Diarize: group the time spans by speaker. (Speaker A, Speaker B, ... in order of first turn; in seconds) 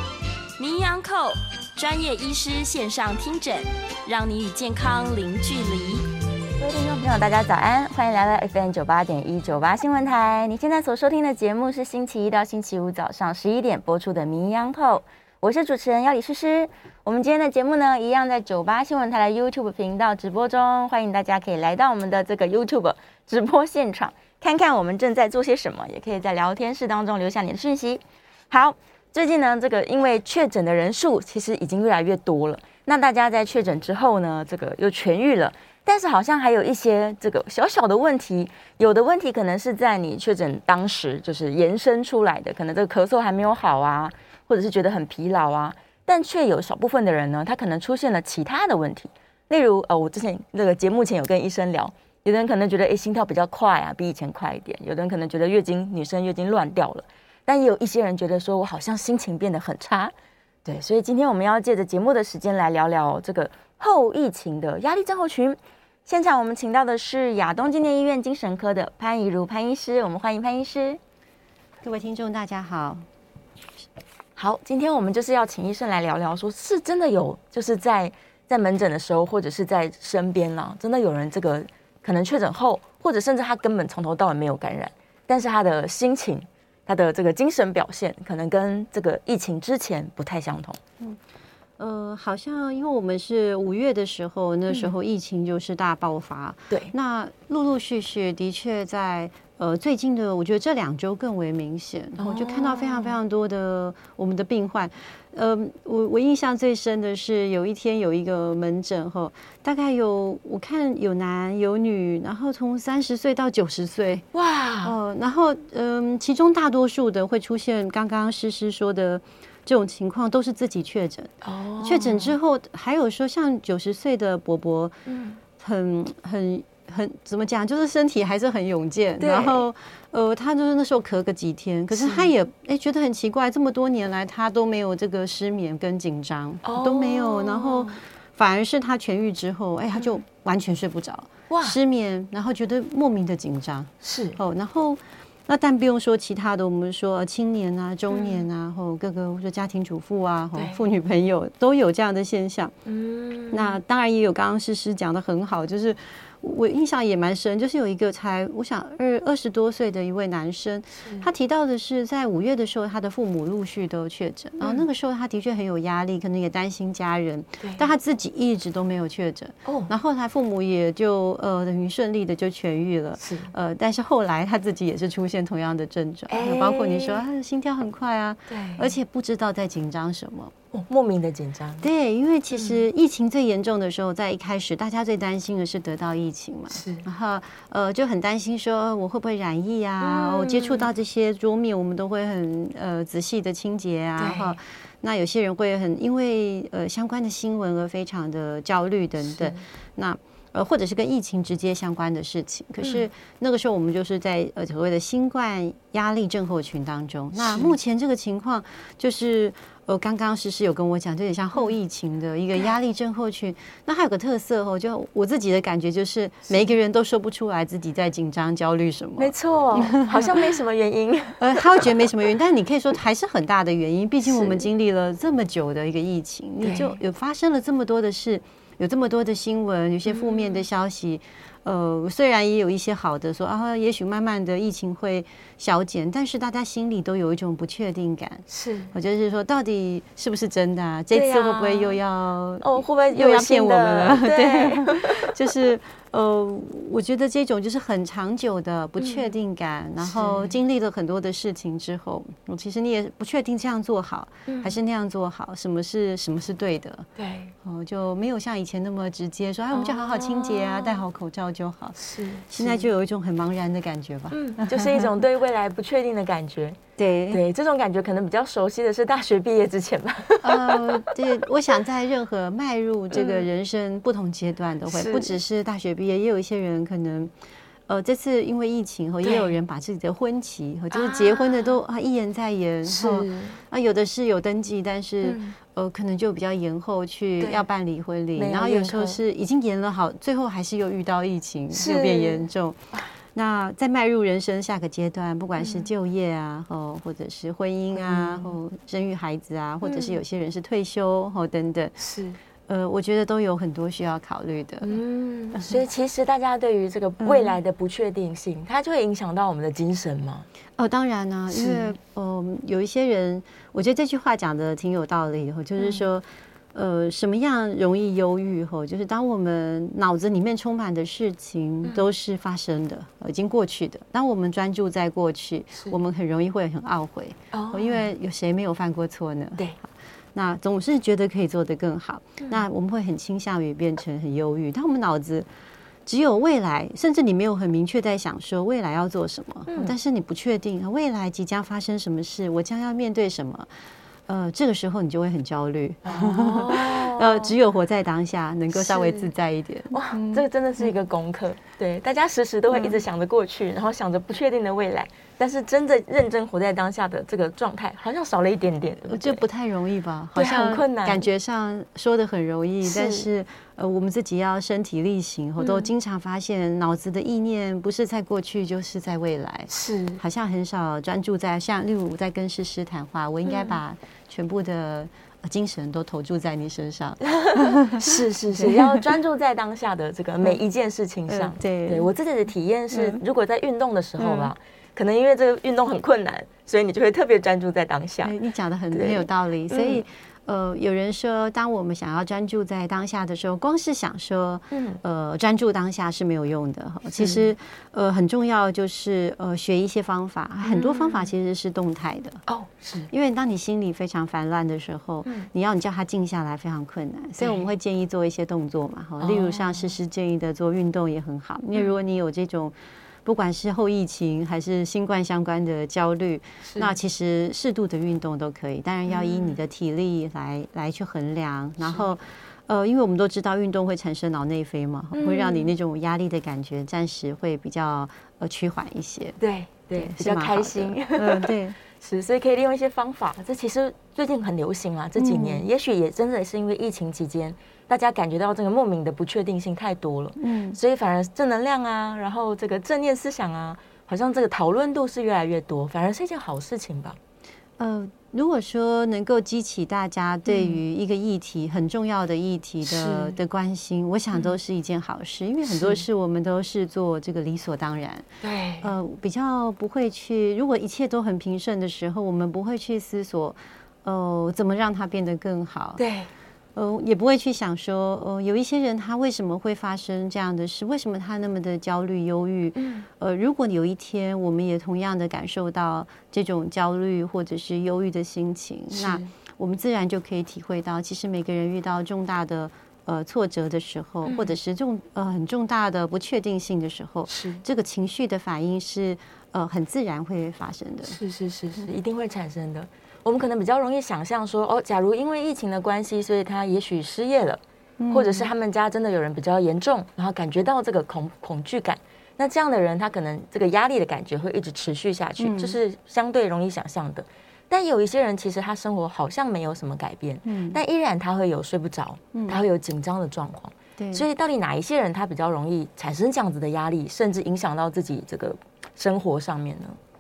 Speaker A: 0.6-6.0
Speaker B: 6.6-60.1, 60.6-71.0, 74.4-90.8, 102.2-103.2, 114.3-115.0, 121.4-122.3, 125.1-125.4, 129.2-129.7, 131.9-132.3, 136.6-138.0, 141.5-141.8, 144.0-144.4, 148.1-148.5, 150.6-150.8, 152.8-153.8, 161.0-161.3, 164.6-164.9, 169.7-169.9, 173.2-173.5, 176.3-177.2, 178.5-178.9, 180.7-181.9, 182.5-182.8, 186.7-187.0, 190.0-190.9, 194.2-194.6, 199.2-199.6, 207.4-207.8, 219.2-222.0, 224.2-224.7, 226.6-227.0, 230.1-230.7, 238.5-238.9, 241.1-242.0, 242.6-245.6, 249.0-249.3, 250.0-250.6, 254.5-254.8, 257.2-257.5, 259.7-261.1, 262.0-262.9, 264.3-266.8, 267.3-271.0, 273.1-273.5, 274.9-275.4, 279.2-279.5, 280.9-281.8, 282.9-283.6, 285.2-285.6, 287.4-287.7, 288.4-289.2, 291.7-293.0, 295.6-295.9, 297.9-298.6, 299.8-300.2, 302.0-302.4, 304.8-310.5, 311.5-311.9, 315.8-316.1, 327.5-328.1, 346.1-347.5, 348.7-349.3, 349.9-359.4, 360.4-361.2, 362.8-363.3, 365.6-365.9, 369.7-370.2, 373.5-373.8, 377.3-388.3, 388.9-390.0, 394.7-395.0, 397.2-397.5, 400.6-401.3, 402.5-403.1, 407.4-407.6, 409.2-409.9, 416.6-416.9, 419.1-419.6, 421.8-422.1, 425.1-425.8, 429.4-447.2, 450.5-450.8, 452.8-453.4, 455.6-456.0, 458.4-458.9, 466.0-466.3, 472.8-473.1, 478.9-479.3, 484.2-484.6, 487.3-487.6, 491.1-520.0
Speaker C: 71.8-73.0, 91.8-114.3, 114.8-125.0, 125.6-152.8, 153.5-180.5, 181.8-220.5, 221.4-257.1, 257.6-265.1, 267.0-267.4, 270.4-277.3, 277.9-292.8, 293.4-301.9, 302.7-305.0, 307.2-307.6, 310.8-335.5, 336.1-343.7, 344.3-350.9, 352.7-353.0, 359.1-379.0, 381.3-382.1, 382.9-383.2, 384.2-384.5, 388.2-402.4, 403.1-412.7, 413.2-429.4, 430.0-431.8, 435.2-435.6, 440.4-440.8, 447.8-458.3, 458.8-466.0, 466.8-491.2, 498.0-498.5, 505.4-505.8, 510.4-510.8, 512.3-512.6, 514.0-514.2